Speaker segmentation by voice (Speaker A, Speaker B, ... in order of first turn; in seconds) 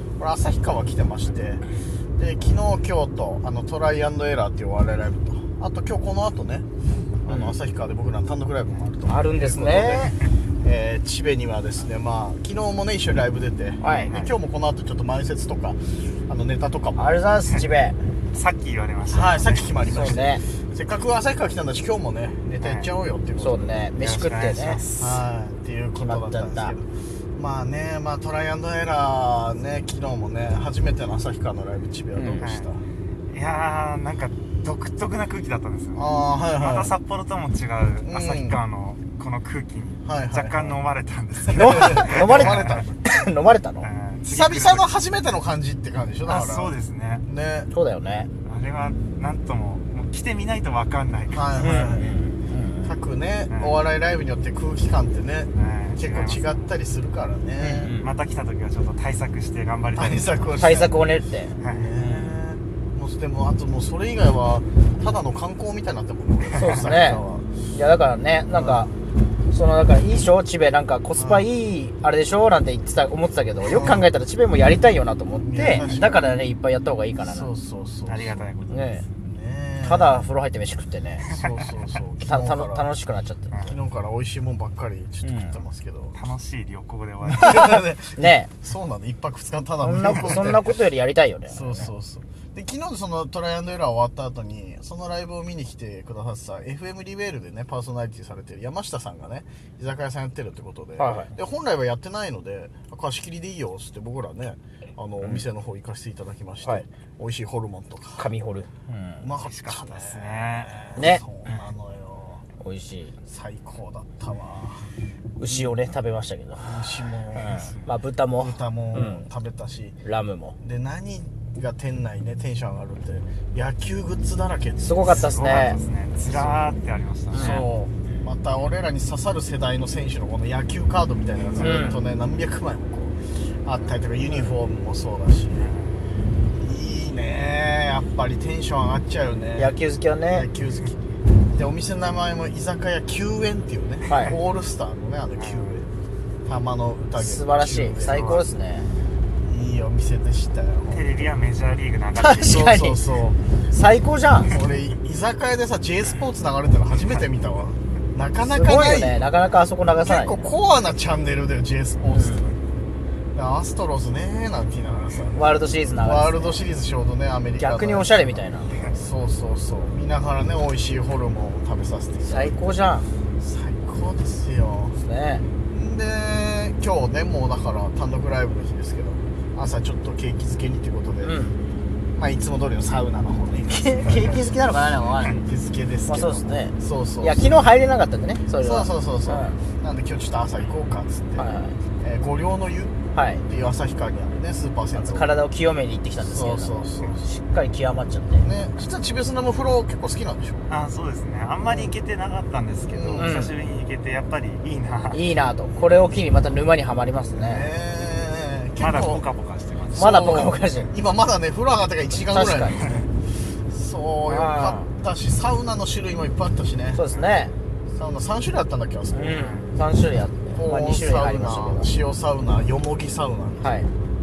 Speaker A: 0.2-1.6, 2.2-6.7, 7.2-17.1, 19.1-23.8, 25.0-32.8, 36.0-36.9, 38.0-38.6, 40.0-40.8, 41.6-42.9, 44.2-47.7, 51.3-52.2, 52.8-57.9, 59.9-61.0, 61.6-67.5, 68.5-68.9, 71.2-71.5, 73.6-74.1, 75.4-76.3, 77.2-78.5, 79.2-80.3, 81.3-82.9, 83.7-86.2, 87.2-90.8, 91.5-108.3, 109.2-112.4, 113.2-114.9, 115.5-115.7, 116.6-117.7, 118.4-120.0, 120.6-125.6, 126.2-126.7, 127.3-135.7, 136.6-139.7, 140.3-141.0, 141.5-145.9, 146.4-148.4, 149.4-151.1, 152.4-153.4, 154.5-159.2, 160.0-162.6, 163.3-165.4, 166.0-172.6, 173.4-175.0, 175.7-181.3, 182.1-184.5, 185.3-187.5, 188.5-191.5, 192.0-195.3, 196.2-197.3, 198.4-200.7, 202.9-203.4, 207.3-209.2, 209.9-213.1, 213.7-217.0, 217.9-219.5, 220.5-223.8
Speaker B: 7.3-7.5, 9.1-10.1, 13.8-14.1, 16.9-18.0, 19.8-20.4, 23.4-24.8, 26.0-26.7, 32.1-32.5, 41.5-43.9, 47.7-48.3, 51.6-53.0, 57.6-58.1, 60.6-61.5, 66.6-68.9, 69.5-77.5, 78.7-79.0, 79.8-81.3, 82.2-83.7, 85.2-85.6, 87.5-88.5, 89.8-91.9, 101.0-101.3, 108.2-109.3, 111.0-111.2, 112.6-113.2, 115.4-116.8, 117.3-119.3, 120.0-120.6, 124.8-125.8, 127.3-127.7, 131.6-132.0, 139.6-140.5, 144.1-144.4, 147.2-148.9, 152.2-153.0, 153.7-154.6, 158.4-160.5, 162.1-162.5, 165.3-166.6, 167.6-168.7, 172.2-173.1, 175.0-175.4, 181.2-181.6, 183.6-185.4, 186.1-189.6, 191.3-191.8, 193.1-193.4, 194.9-198.5, 203.2-203.5, 205.1-207.7, 209.9-210.9, 212.2-213.0, 214.2-214.9, 216.9-217.5, 219.1-221.9, 223.6-223.9
Speaker C: 14.0-14.3, 18.3-19.7, 22.6-22.9, 23.9-25.2, 32.4-32.7, 33.3-42.9, 43.8-44.9, 46.2-47.2, 48.4-52.2, 53.5-53.8, 55.5-56.6, 57.9-60.5, 61.6-62.4, 78.0-79.0, 81.3-81.5, 83.5-83.8, 86.1-87.6, 109.4-110.9, 117.5-117.8, 125.0-127.7, 135.5-136.1, 145.4-145.8, 150.9-152.8, 200.7-205.2, 208.8-210.1, 219.3-219.7